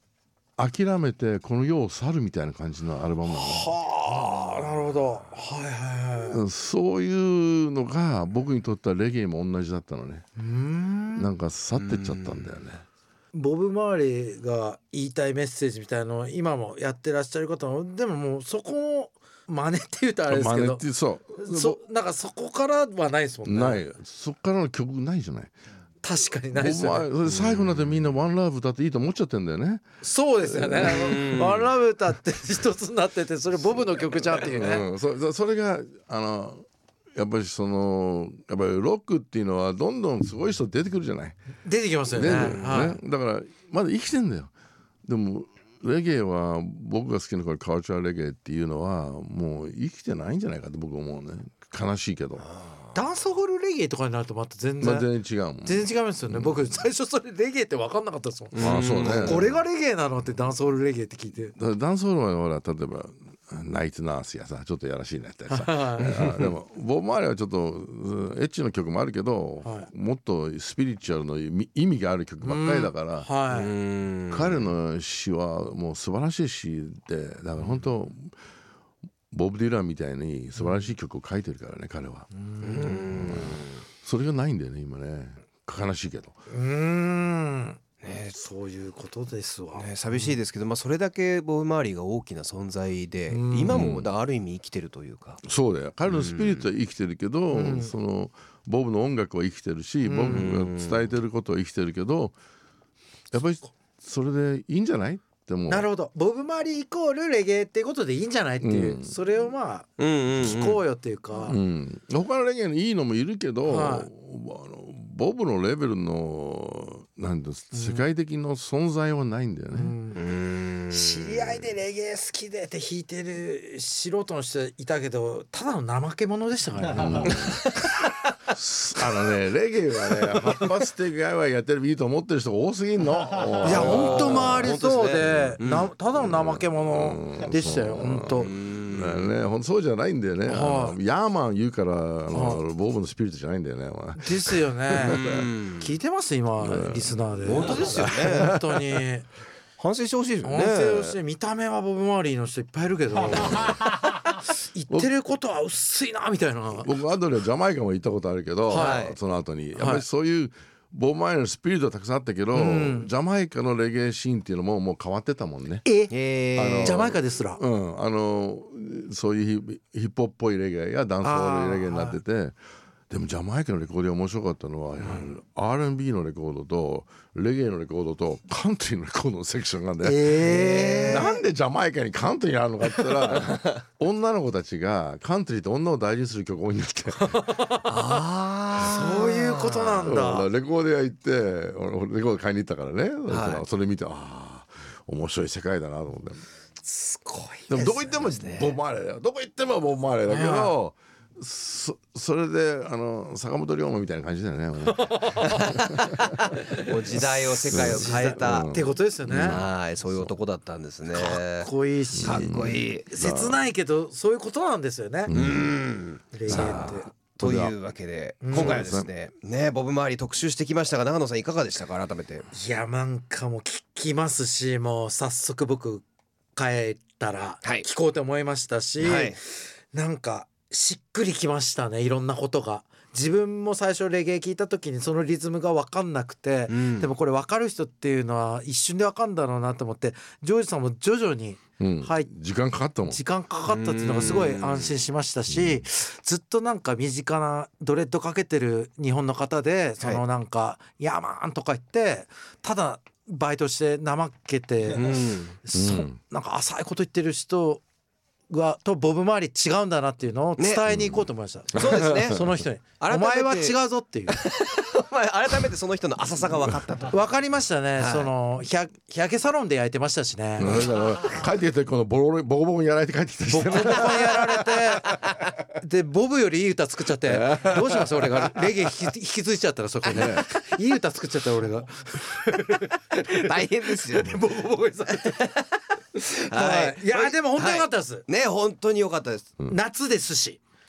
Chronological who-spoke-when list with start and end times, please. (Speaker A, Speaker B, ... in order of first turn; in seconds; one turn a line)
Speaker A: 0.6-3.7
Speaker B: 3.3-6.4
Speaker C: 4.1-4.6
Speaker A: 6.3-10.2
Speaker B: 10.4-11.3
Speaker A: 11.2-12.8
Speaker C: 11.8-12.5
Speaker B: 13.3-20.8
Speaker A: 20.3-21.8
Speaker B: 21.4-23.8
Speaker A: 23.4-25.5
Speaker B: 26.0-27.1
Speaker A: 26.5-29.8
Speaker C: 27.3-27.6
Speaker B: 30.0-34.9
Speaker A: 30.4-31.7
Speaker C: 30.8-31.6
Speaker A: 33.6-41.4
Speaker B: 41.6-43.0
Speaker A: 42.1-44.5
Speaker C: 42.3-42.8
Speaker A: 45.0-52.5
Speaker C: 52.5-52.9
Speaker B: 52.9-55.1
Speaker A: 54.8-56.6
Speaker B: 55.6-61.5
Speaker C: 58.5-59.5
Speaker A: 58.6-59.5
Speaker A: 61.5-73.3
Speaker B: 65.5-66.3
Speaker C: 66.0-66.5
Speaker B: 69.6-69.9
Speaker B: 72.4-73.7
Speaker C: 73.5-74.6
Speaker A: 74.3-78.3
Speaker A: 79.3-82.3
Speaker B: 82.4-83.1
Speaker C: 82.6-83.8
Speaker A: 83.1-86.4
Speaker B: 86.5-90.3
Speaker C: 88.0-88.3
Speaker C: 89.7-95.4
Speaker B: 93.3-93.9
Speaker A: 93.7-94.1
Speaker A: 95.4-102.4
Speaker C: 96.1-96.7
Speaker B: 97.5-97.9
Speaker B: 100.0-100.5
Speaker C: 100.3-101.0
Speaker A: 103.3-105.9
Speaker B: 105.7-111.6
Speaker A: 108.6-109.2
Speaker C: 110.0-110.8
Speaker A: 111.4-120.0
Speaker B: 113.7-114.1
Speaker B: 117.7-118.1
Speaker B: 119.7-120.2
Speaker C: 120.1-121.4
Speaker B: 120.9-128.0
Speaker A: 127.0-127.6
Speaker A: 128.5-134.8
Speaker C: 133.6-135.9
Speaker B: 133.6-138.5
Speaker A: 136.2-145.5
Speaker C: 138.4-139.3
Speaker B: 140.5-141.0
Speaker B: 142.3-142.6
Speaker B: 144.2-149.3
Speaker C: 145.0-145.9
Speaker A: 146.6-149.1
Speaker C: 147.4-148.6
Speaker C: 149.8-151.2
Speaker B: 150.4-156.9
Speaker A: 156.8-165.9
Speaker B: 158.7-159.1
Speaker C: 158.7-159.2
Speaker B: 159.8-160.1
Speaker B: 162.5-163.1
Speaker B: 165.9-166.1
Speaker C: 166.1-167.1
Speaker A: 166.6-172.6
Speaker B: 166.8-167.6
Speaker B: 171.2-172.2
Speaker A: 173.1-180.5
Speaker B: 180.0-181.4
Speaker C: 180.4-181.3
Speaker A: 181.1-187.5
Speaker B: 187.2-188.2
Speaker C: 187.8-190.1
Speaker B: 188.8-190.5
Speaker A: 190.0-196.4
Speaker C: 193.3-193.6
Speaker B: 196.8-198.2
Speaker A: 197.7-205.9
Speaker C: 198.2-198.7
Speaker B: 200.3-200.8
Speaker B: 204.9-205.7
Speaker C: 205.4-208.7
Speaker B: 207.7-209.6
Speaker A: 207.7-210.3
Speaker C: 209.4-213.1
Speaker B: 211.1-215.3
Speaker A: 212.2-213.6
Speaker A: 215.3-215.8
Speaker C: 215.3-222.4
Speaker B: 216.3-217.1
Speaker A: 216.5-217.7
Speaker B: 218.4-218.9
Speaker A: 218.5-219.1
Speaker B: 222.5-226.0
Speaker B: 226.6-229.4
Speaker C: 229.0-229.4
Speaker B: 229.9-242.3
Speaker C: 236.7-237.1
Speaker A: 241.8-243.2
Speaker B: 243.1-257.8
Speaker C: 243.7-244.9
Speaker A: 245.5-245.8
Speaker C: 254.9-255.6
Speaker A: 255.7-256.1
Speaker B: 258.5-264.4
Speaker A: 260.9-262.5
Speaker C: 261.8-262.4
Speaker C: 263.0-263.8
Speaker C: 264.3-267.1
Speaker B: 267.1-270.7
Speaker C: 268.0-268.3
Speaker A: 270.6-274.9
Speaker B: 273.5-275.2
Speaker B: 275.8-285.6
Speaker A: 277.2-278.7
Speaker A: 280.1-280.4
Speaker C: 283.2-284.4
Speaker C: 285.2-285.6
Speaker B: 286.3-288.2
Speaker C: 286.4-289.5
Speaker B: 289.7-290.6